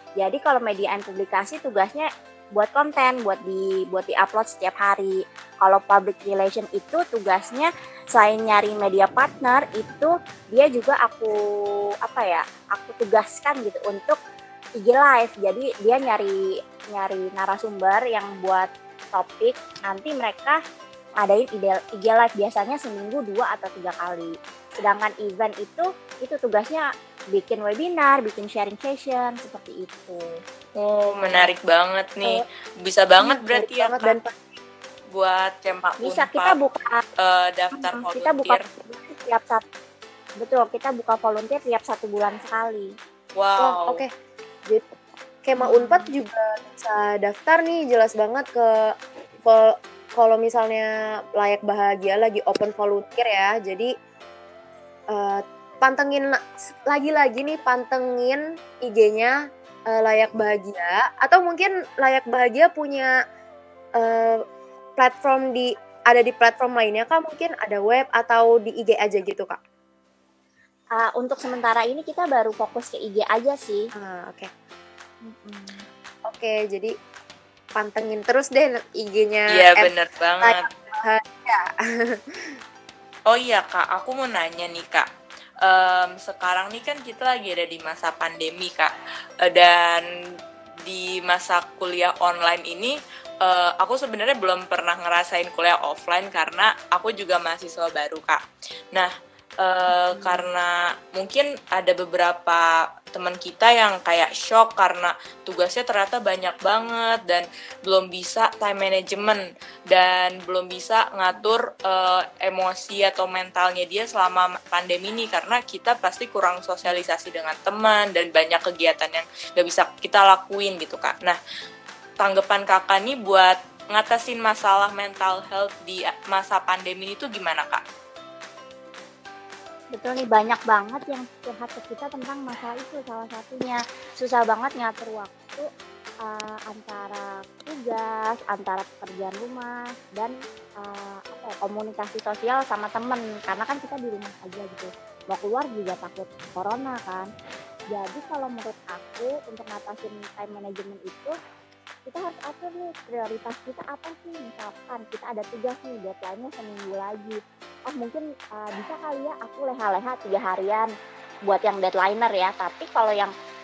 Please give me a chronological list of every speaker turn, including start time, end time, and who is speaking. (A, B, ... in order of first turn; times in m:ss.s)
0:00.2-0:11.3 A
0:12.0-0:14.2 A
0:14.8-0:16.3 A
0:16.9-0:20.6 A
0:21.2-0:30.4 A
0:30.8-0:34.2 B
0:33.2-0:34.4 C
0:35.1-0:36.6 B
0:36.0-0:37.0 A
0:37.2-0:38.6 B
0:37.7-0:39.6 A
0:40.4-0:42.9 A
0:43.4-0:44.0 B
0:43.6-0:44.1 C
0:45.4-0:48.7 C
0:45.6-0:46.1 A
0:49.4-0:53.9 C
0:55.1-0:59.3 C
0:59.9-1:03.1 C
1:04.0-1:04.4 C
1:05.0-1:09.6 C
1:10.9-1:13.8 A
1:14.0-1:14.5 C
1:15.3-1:16.9 C
1:17.8-1:19.9 C
1:19.5-1:20.6 B
1:20.4-1:22.2 C
1:23.3-1:25.0 B
1:25.6-1:28.9 B
1:29.4-1:30.0 B
1:30.8-1:38.4 B
1:39.6-2:01.4 B
1:40.0-1:40.4 A
2:02.2-2:07.8 B
2:09.9-2:15.7 A
2:16.2-2:27.3 A
2:27.9-2:31.3 A
2:32.0-2:40.9 A
2:41.4-2:43.3 A